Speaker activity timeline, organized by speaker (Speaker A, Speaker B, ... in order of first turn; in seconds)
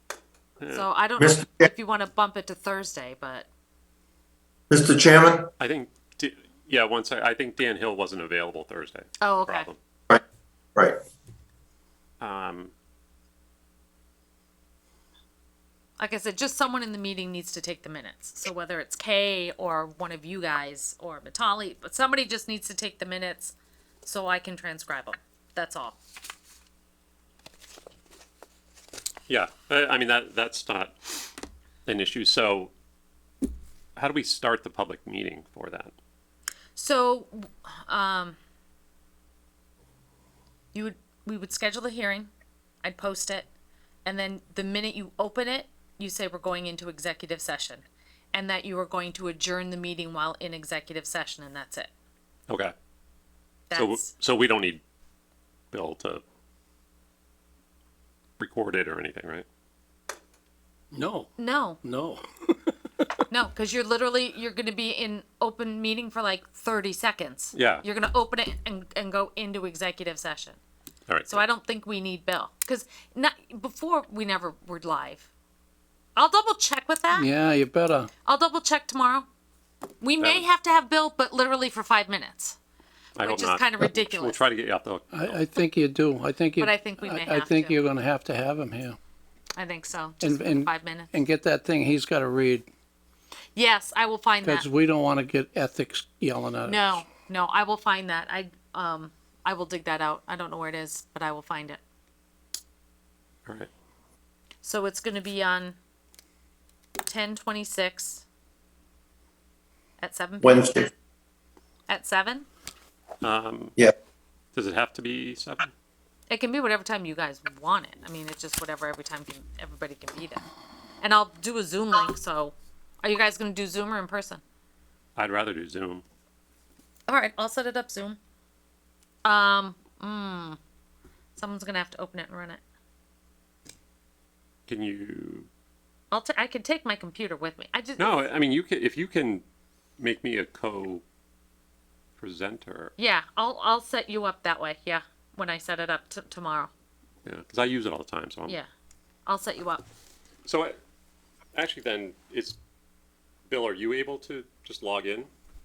Speaker A: 0.6-0.9, 5.6-9.8, 12.2-12.7, 29.3-31.3, 31.9-32.7, 34.0-35.9, 53.7-54.8, 55.7-56.2, 58.4-59.5, 67.5-67.8, 71.1-71.4, 80.2-80.4, 83.2-85.4, 113.2-113.8, 114.5-115.7, 125.2-126.0, 134.7-135.5, 138.0-139.4, 140.0-141.0, 142.2-142.9, 147.2-148.6, 150.4-150.8, 151.6-152.6, 153.5-155.3
Speaker B: 0.7-3.5, 9.2-9.7, 16.0-26.0, 36.8-38.4, 40.7-42.3, 42.8-43.5, 44.0-51.9, 53.7-54.1, 61.4-61.8, 63.3-70.6, 71.3-75.3, 76.2-77.3, 78.2-79.3, 80.0-82.6, 83.2-84.4, 86.6-87.8, 89.6-91.1, 93.5-94.7, 96.7-101.8, 104.6-105.8, 107.0-108.2, 110.0-110.9, 111.9-112.5, 116.3-120.4, 121.0-124.4, 127.1-128.2, 129.2-130.6, 131.4-132.6, 136.1-138.3, 143.0-146.7, 149.3-149.8
Speaker C: 1.2-1.7, 4.7-5.5, 110.4-110.9
Speaker D: 60.9-61.3, 61.8-63.2, 77.1-78.1, 85.1-89.0, 90.2-92.7, 94.4-97.0